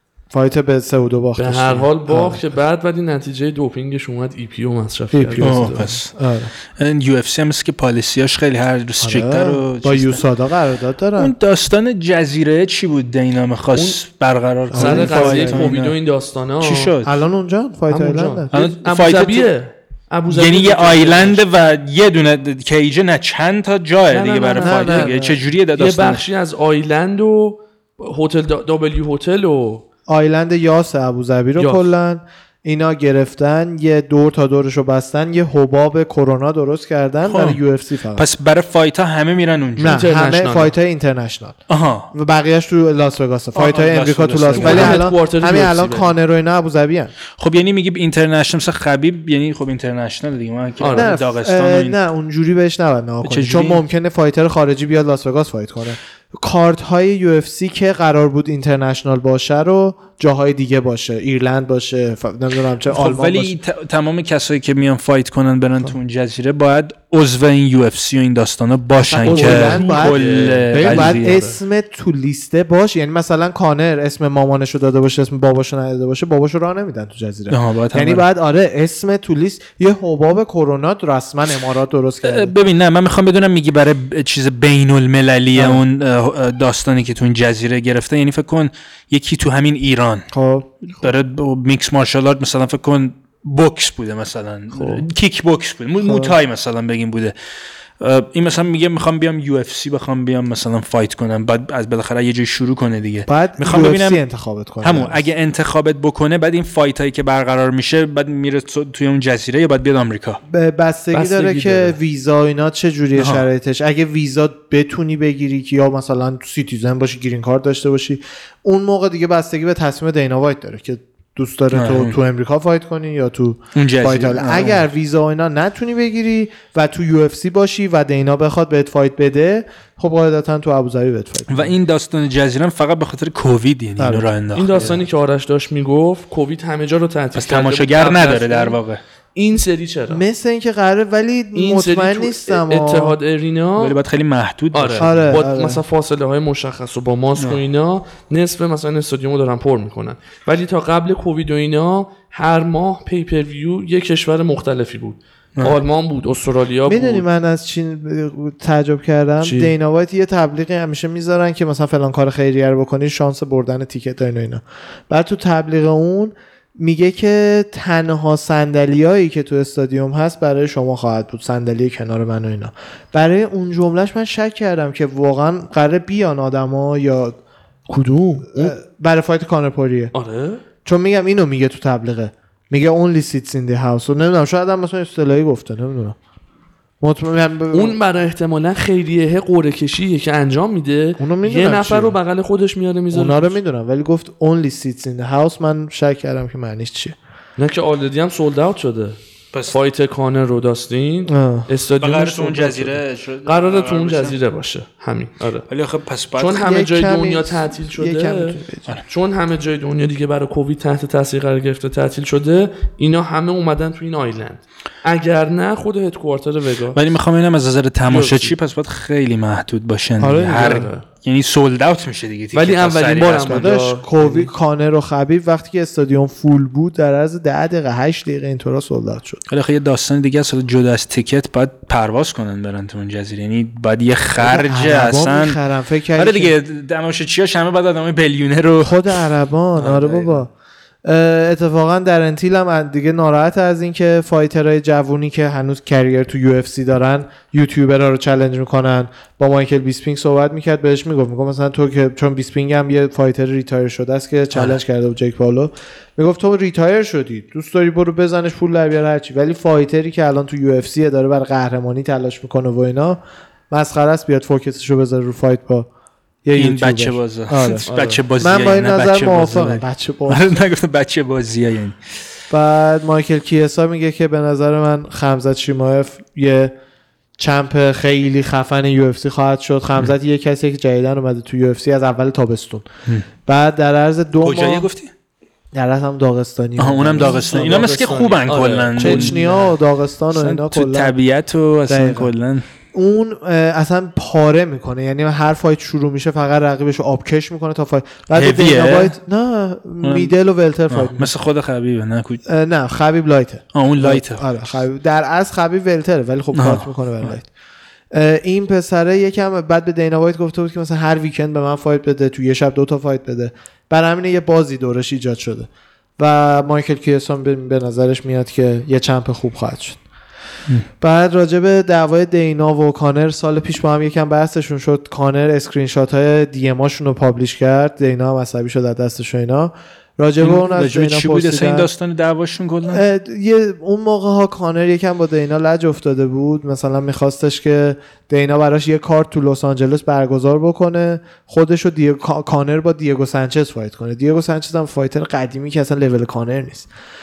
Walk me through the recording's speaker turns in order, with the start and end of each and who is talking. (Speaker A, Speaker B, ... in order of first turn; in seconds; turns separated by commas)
Speaker A: 0.3-2.4, Speaker B: 1.4-5.9, Speaker A: 5.1-6.5, Speaker C: 5.4-6.2, Speaker C: 6.8-10.2, Speaker A: 9.0-11.3, Speaker C: 11.2-16.0, Speaker A: 14.7-15.7, Speaker B: 14.7-16.9, Speaker C: 16.6-17.1, Speaker A: 17.0-18.5, Speaker B: 17.9-21.4, Speaker C: 18.5-19.5, Speaker C: 20.3-26.2, Speaker B: 24.1-25.1, Speaker A: 24.6-25.4, Speaker B: 25.8-29.8, Speaker A: 30.1-38.3, Speaker B: 31.6-31.9, Speaker C: 37.2-37.6, Speaker C: 38.2-40.1, Speaker A: 39.8-41.6, Speaker B: 39.8-40.7, Speaker C: 41.7-42.1, Speaker A: 42.1-47.1, Speaker C: 43.5-45.0, Speaker B: 44.5-46.1, Speaker C: 47.4-52.0, Speaker B: 50.8-51.2, Speaker A: 50.9-63.5, Speaker C: 53.2-53.8, Speaker C: 62.9-71.4, Speaker A: 69.0-82.5, Speaker B: 69.2-71.6, Speaker C: 77.5-78.2, Speaker C: 82.2-90.3, Speaker A: 85.6-85.8, Speaker A: 90.3-91.1, Speaker C: 91.0-97.3, Speaker B: 94.7-95.1, Speaker A: 96.0-96.3, Speaker C: 98.0-104.2, Speaker A: 103.3-105.3, Speaker C: 104.8-110.4, Speaker A: 110.5-131.7, Speaker B: 111.1-112.0, Speaker C: 113.2-113.5, Speaker C: 121.7-122.2, Speaker C: 123.8-124.8, Speaker C: 131.5-135.0, Speaker A: 134.0-134.2, Speaker B: 134.6-138.8, Speaker C: 137.3-139.0, Speaker B: 139.3-140.2, Speaker A: 140.1-143.2, Speaker B: 141.5-144.0, Speaker C: 143.8-145.4, Speaker B: 144.7-157.2, Speaker A: 145.0-145.8, Speaker A: 156.9-177.4, Speaker B: 159.4-159.7, Speaker B: 177.9-178.8, Speaker A: 178.5-180.1, Speaker B: 180.1-180.6, Speaker A: 180.8-186.2, Speaker A: 187.0-188.0, Speaker B: 187.7-193.6, Speaker A: 191.2-192.2, Speaker A: 193.1-197.2, Speaker B: 197.6-205.7, Speaker A: 201.3-201.7, Speaker C: 202.0-204.4, Speaker C: 205.7-206.7, Speaker B: 206.4-217.0, Speaker A: 206.6-208.9, Speaker C: 216.9-223.8, Speaker B: 218.1-218.5, Speaker A: 220.2-220.9, Speaker B: 220.4-221.1, Speaker B: 222.5-224.5, Speaker A: 223.5-229.4, Speaker C: 229.5-235.6, Speaker A: 234.4-236.5, Speaker C: 236.2-239.2, Speaker A: 238.8-240.5, Speaker C: 239.8-240.4, Speaker A: 241.1-265.9, Speaker A: 266.4-270.6, Speaker C: 266.6-272.0, Speaker B: 267.9-268.2, Speaker A: 272.5-276.7, Speaker A: 277.4-282.9, Speaker A: 283.5-284.9, Speaker C: 284.4-285.1, Speaker A: 285.7-291.1, Speaker C: 286.8-289.7, Speaker B: 287.5-287.9, Speaker B: 288.4-289.6, Speaker C: 290.3-292.6, Speaker A: 291.9-292.3, Speaker A: 292.9-301.3, Speaker C: 298.3-299.1, Speaker C: 300.0-300.3, Speaker C: 300.9-302.4, Speaker A: 302.4-307.5, Speaker C: 303.7-304.7, Speaker C: 306.5-307.4, Speaker A: 308.1-320.0, Speaker A: 321.0-331.9, Speaker C: 330.4-333.0, Speaker A: 332.9-346.9